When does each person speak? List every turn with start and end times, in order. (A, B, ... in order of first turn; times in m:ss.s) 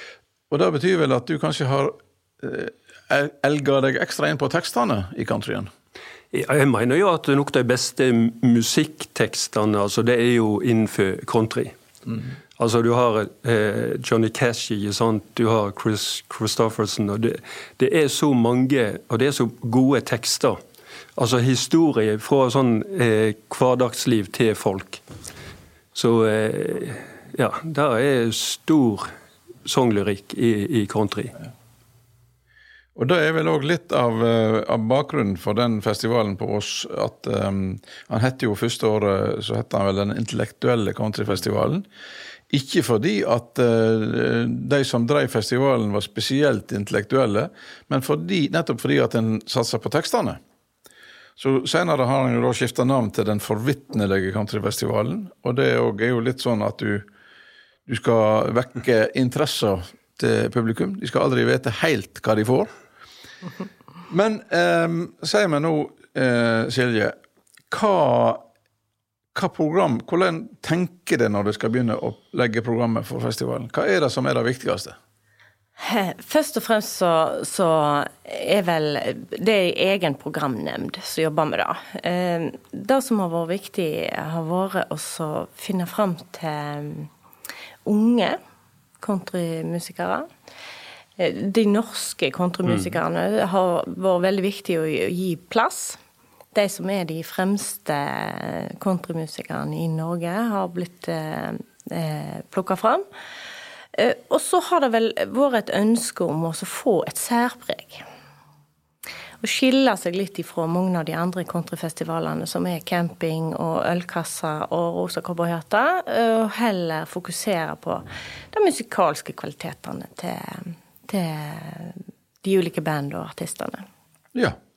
0:00.5-0:05.7 A
0:06.3-0:11.8 B
0:12.6-0:20.6 B
0:21.2-0:25.0 B
0:25.9-0:29.1 B
0:29.6-0:31.4 B
0:33.0-0:41.8 A
0:42.5-0:50.4 A
0:51.4-0:57.1 A
0:57.9-1:02.7 A
1:04.1-1:07.2 A
1:07.7-1:08.4 A
1:09.3-1:15.0 A
1:15.8-1:27.1 C
1:27.8-1:28.4 C
1:29.0-1:30.3 C
1:31.2-1:36.0 C
1:32.7-1:32.9 B
1:36.5-1:43.0 C
1:43.9-1:48.0 C
1:49.4-2:03.9 C